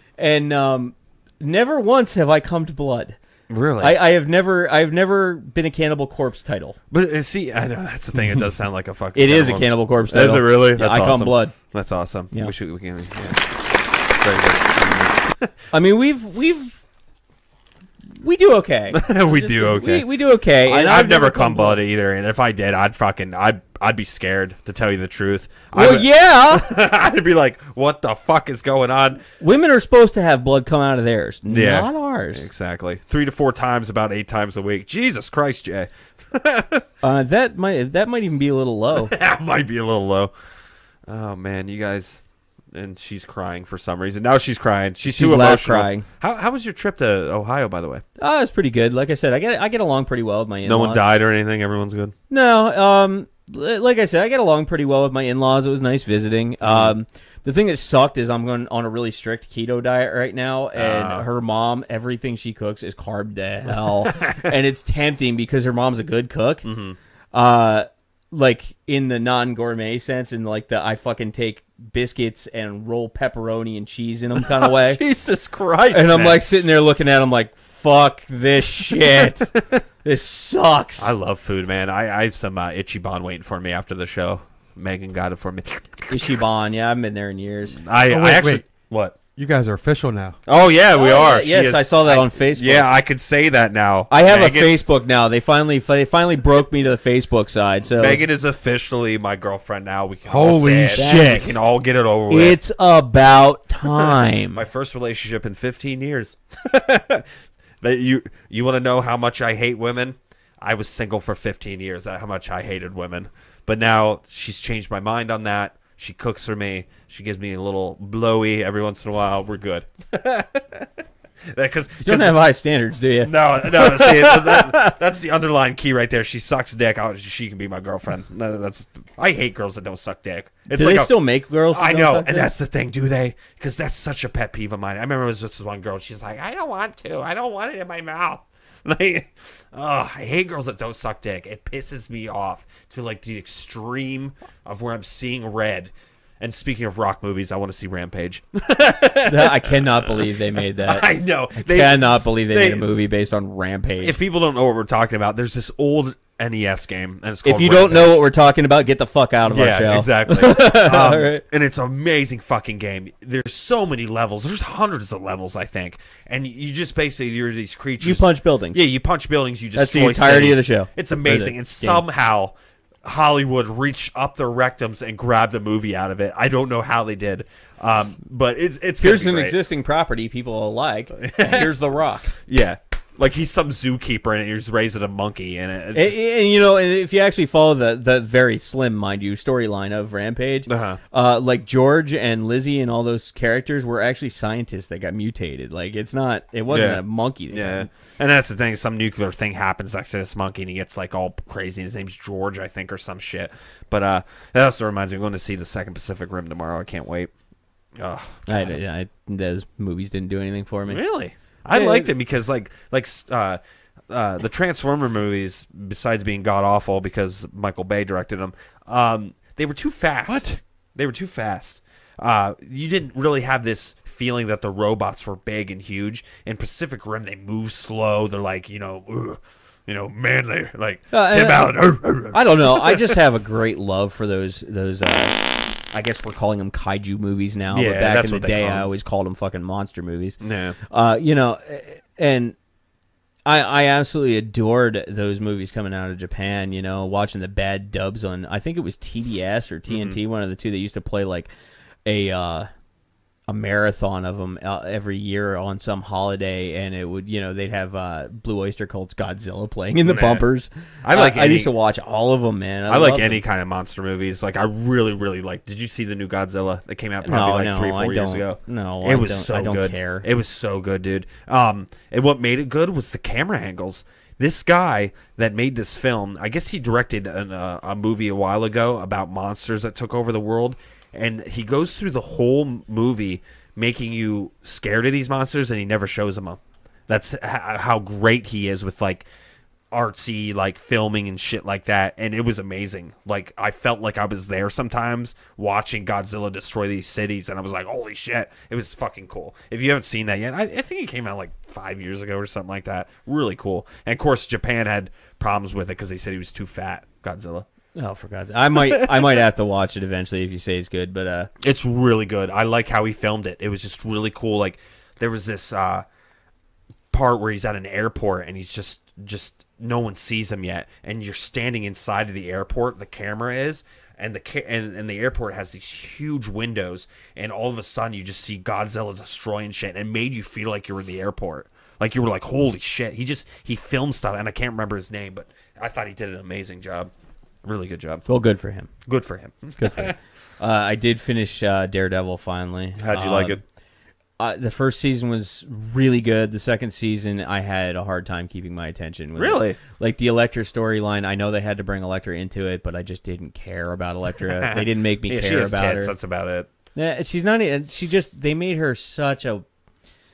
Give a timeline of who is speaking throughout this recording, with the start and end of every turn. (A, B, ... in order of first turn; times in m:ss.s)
0:00.2-0:03.2 A
0:03.5-0:04.0 B
0:03.8-0:06.8 A
0:06.9-0:13.4 B
0:09.1-0:11.5 A
0:14.1-0:15.5 B
0:15.7-0:16.8 A
0:18.1-0:21.8 A
0:18.9-0:29.2 B
0:25.7-0:26.8 A
0:29.4-0:32.5 A
0:31.4-0:36.8 B
0:37.0-0:39.1 A
0:38.9-0:40.3 B
0:41.0-0:42.2 B
0:42.7-0:48.0 B
0:45.0-0:46.1 A
0:48.2-0:51.0 A
0:50.6-0:52.1 B
0:52.3-1:06.6 A
0:56.6-0:56.9 B
1:00.7-1:01.3 B
1:04.0-1:04.5 B
1:06.6-1:07.0 B
1:07.3-1:15.0 A
1:14.4-1:16.4 B
1:15.9-1:19.5 A
1:18.9-1:19.8 B
1:20.0-1:21.1 A
1:21.0-1:26.4 B
1:26.1-1:27.8 A
1:27.8-1:29.2 B
1:28.1-1:28.7 C
1:29.3-1:30.4 C
1:30.5-1:34.8 B
1:31.0-1:32.9 A
1:34.1-1:38.2 A
1:37.9-1:42.6 B
1:40.3-1:41.4 C
1:40.5-1:41.5 A
1:42.3-1:44.6 A
1:44.0-1:47.3 B
1:47.8-2:00.9 B
2:01.5-2:02.4 B
2:02.0-2:04.9 A
2:03.2-2:11.2 B
2:10.7-2:12.5 A
2:11.7-2:32.9 B
2:29.2-2:34.2 A
2:34.0-2:38.2 B
2:37.4-2:41.4 A
2:39.4-2:59.6 B
2:48.0-2:48.8 A
2:49.8-2:52.0 A
2:59.0-3:02.3 A
3:01.2-3:01.7 B
3:02.5-3:06.2 B
3:05.9-3:17.9 A
3:10.7-3:11.0 B
3:16.7-3:27.3 B
3:28.0-3:28.8 B
3:28.5-3:31.0 A
3:30.9-3:53.2 B
3:31.7-3:32.1 A
3:40.3-3:40.6 C
3:51.1-4:02.5 A
3:57.7-3:58.9 B
4:00.4-4:00.8 B
4:03.4-4:11.5 A
4:09.9-4:10.2 B
4:12.0-4:12.7 A
4:13.5-4:23.4 A
4:20.0-4:20.4 B
4:21.0-4:21.7 B
4:22.9-4:49.3 B
4:27.2-4:30.3 A
4:49.9-5:07.7 B
5:07.9-5:11.5 A
5:08.7-5:09.4 B
5:11.6-5:16.0 B
5:17.1-5:37.1 B
5:37.6-5:38.3 B
5:38.3-5:38.9 A
5:39.0-5:40.2 B
5:39.8-5:43.6 A
5:43.0-5:43.6 B
5:44.4-5:56.1 A
5:49.4-5:49.8 B
5:54.4-5:56.7 B
5:56.9-5:59.6 A